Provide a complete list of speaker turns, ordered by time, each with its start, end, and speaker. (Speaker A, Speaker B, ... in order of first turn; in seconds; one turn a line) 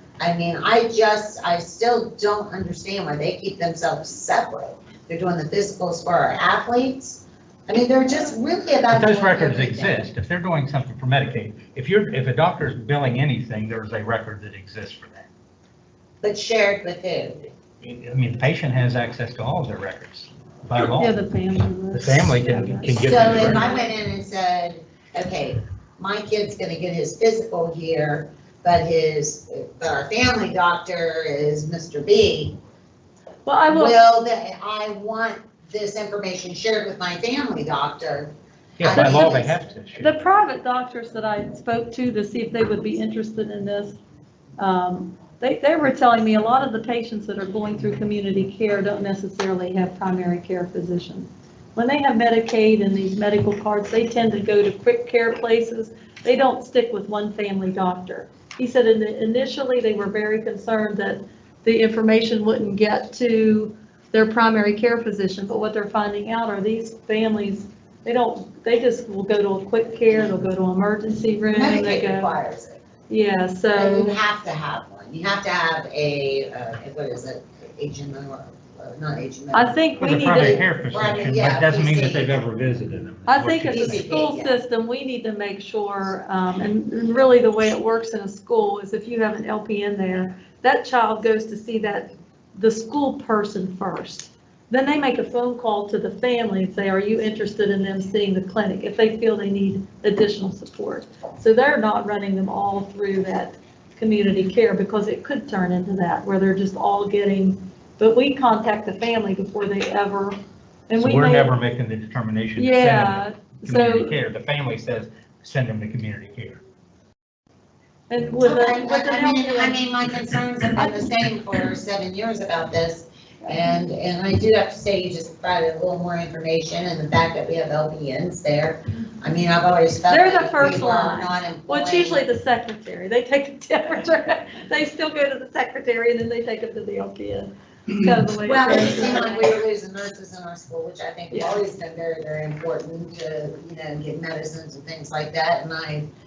Speaker A: 0.2-10.1
Speaker B: 8.9-15.3
Speaker A: 16.2-17.5
Speaker B: 17.8-21.2
Speaker C: 20.8-23.9
Speaker B: 21.9-23.7
Speaker A: 23.0-32.6
Speaker C: 33.5-34.0
Speaker A: 33.7-38.3
Speaker B: 38.8-40.1
Speaker A: 38.8-39.5
Speaker C: 38.9-44.0
Speaker C: 44.6-72.4
Speaker A: 71.5-72.8
Speaker C: 73.1-74.2
Speaker A: 73.8-82.5
Speaker C: 79.5-80.8
Speaker B: 80.0-84.1
Speaker C: 83.3-110.3
Speaker A: 83.7-84.6
Speaker C: 110.9-111.5
Speaker B: 111.0-116.6
Speaker C: 112.6-114.2
Speaker C: 118.1-119.8
Speaker A: 118.4-132.2
Speaker C: 130.1-139.5
Speaker A: 138.4-146.1
Speaker C: 141.3-141.6